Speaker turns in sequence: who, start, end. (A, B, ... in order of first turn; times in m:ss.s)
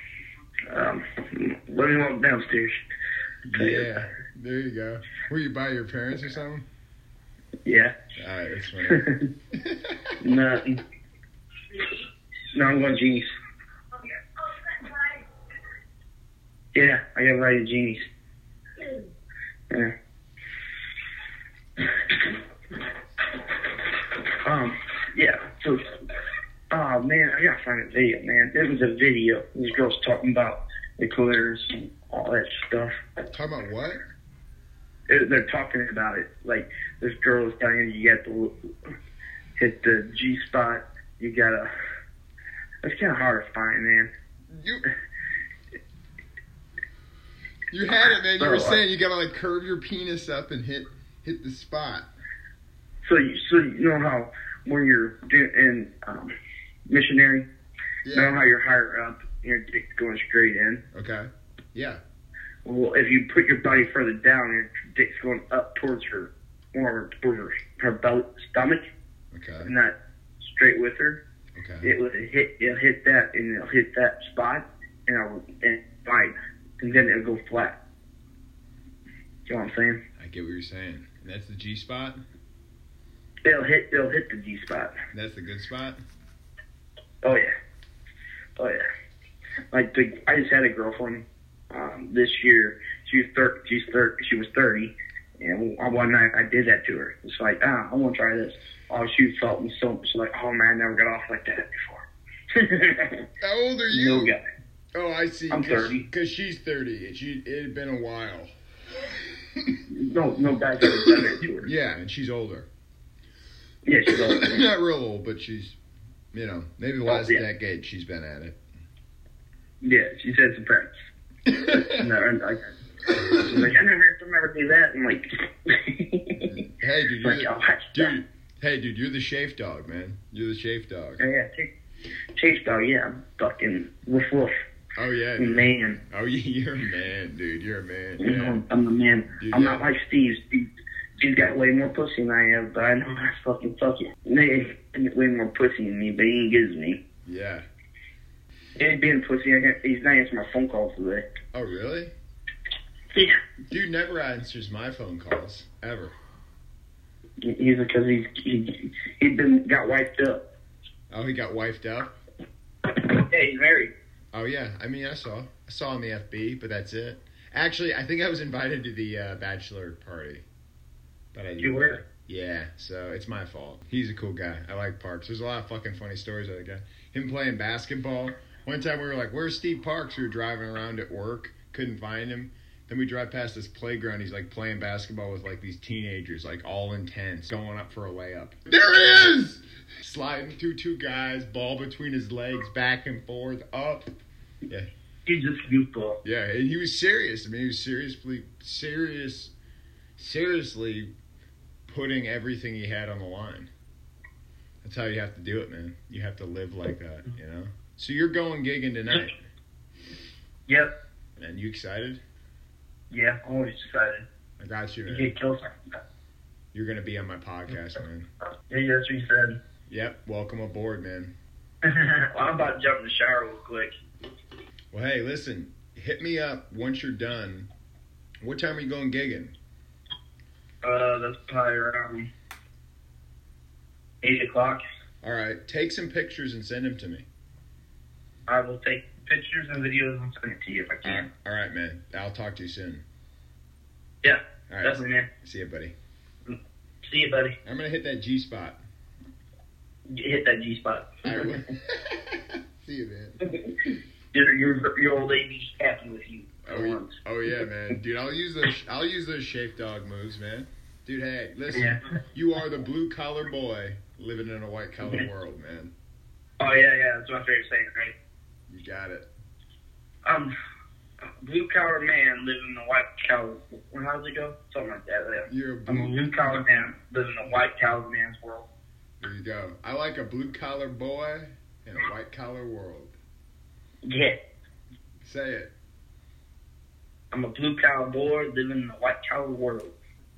0:00.7-0:02.8 A
0:03.5-0:06.6 B
0:03.6-0:04.0 A
0:07.6-0:08.0 A
0:08.2-0:09.0 B
0:08.8-0:09.2 A
0:09.6-0:10.1 B
0:10.2-0:10.8 A
0:12.5-0:13.3 A
0:14.7-0:15.1 A
0:16.7-0:18.1 A
0:21.8-0:22.4 A
0:24.0-0:25.9 A
0:26.7-0:32.9 A
0:33.3-0:34.0 B
0:35.1-0:38.9 A
0:39.6-0:41.7 A
0:42.8-0:44.1 A
0:44.5-0:44.8 B
0:47.7-0:52.1 B
0:48.0-0:48.8 A
0:53.0-0:56.3 A
0:56.9-0:57.5 A
0:58.0-0:58.4 B
0:58.1-1:00.8 A
1:00.9-1:02.0 B
1:02.6-1:08.8 A
1:09.3-1:09.7 B
1:09.6-1:11.2 A
1:11.6-1:11.9 B
1:11.8-1:17.8 A
1:19.5-1:20.0 A
1:20.2-1:22.2 B
1:23.4-1:25.0 A
1:25.1-1:26.0 B
1:27.2-1:27.5 A
1:28.6-1:28.8 A
1:29.7-1:43.3 A
1:43.4-1:44.3 B
1:43.9-1:44.4 A
1:44.9-1:48.5 B
1:45.5-1:46.0 A
1:49.9-1:51.7 A
1:51.0-1:52.7 B
1:53.9-1:54.7 A
1:54.1-1:55.8 B
1:56.3-1:58.6 B
1:57.1-1:57.4 A
1:59.8-2:00.9 A
2:01.5-2:02.0 B
2:01.7-2:02.7 A
2:03.2-2:03.6 B
2:03.3-2:06.5 A
2:06.4-2:11.2 B
2:07.2-2:08.2 A
2:11.2-2:11.7 A
2:12.4-2:14.5 A
2:15.0-2:18.6 B
2:15.4-2:16.0 A
2:18.2-2:27.0 A
2:19.4-2:19.8 B
2:27.2-2:27.6 B
2:28.8-2:31.2 A
2:31.5-2:32.1 B
2:33.1-2:33.4 A
2:33.7-2:36.2 B
2:37.4-2:40.4 A
2:41.1-2:42.2 B
2:42.9-2:43.9 A
2:44.3-2:50.5 B
2:51.3-3:14.1 B
2:51.6-2:52.0 A
3:15.3-3:16.2 A
3:16.2-3:19.5 B
3:20.2-3:21.1 B
3:21.9-3:23.7 B
3:24.8-3:29.4 B
3:30.7-3:30.9 A
3:31.4-3:32.2 B
3:33.1-3:34.3 A
3:34.6-3:35.3 B
3:35.1-3:35.8 A
3:36.7-3:38.3 B
3:38.7-3:39.6 A
3:39.9-3:41.3 B
3:41.8-3:43.9 A
3:44.9-3:47.7 B
3:48.4-3:49.6 B
3:50.8-3:52.3 A
3:54.2-3:54.8 A
3:55.2-3:57.3 B
3:58.5-4:01.3 A
4:01.0-4:03.0 B
4:04.2-4:05.3 A
4:04.7-4:05.9 B
4:07.0-4:07.6 A
4:07.6-4:08.8 B
4:10.1-4:11.6 A
4:11.2-4:13.4 B
4:13.5-4:17.1 A
4:16.6-4:25.9 B
4:21.7-4:22.0 A
4:26.6-4:28.2 A
4:28.7-4:29.3 B
4:30.2-4:30.5 A
4:31.4-4:38.7 A
4:35.5-4:36.2 B
4:39.2-4:43.2 B
4:44.1-4:44.4 A
4:45.2-4:45.7 B
4:47.3-4:49.9 A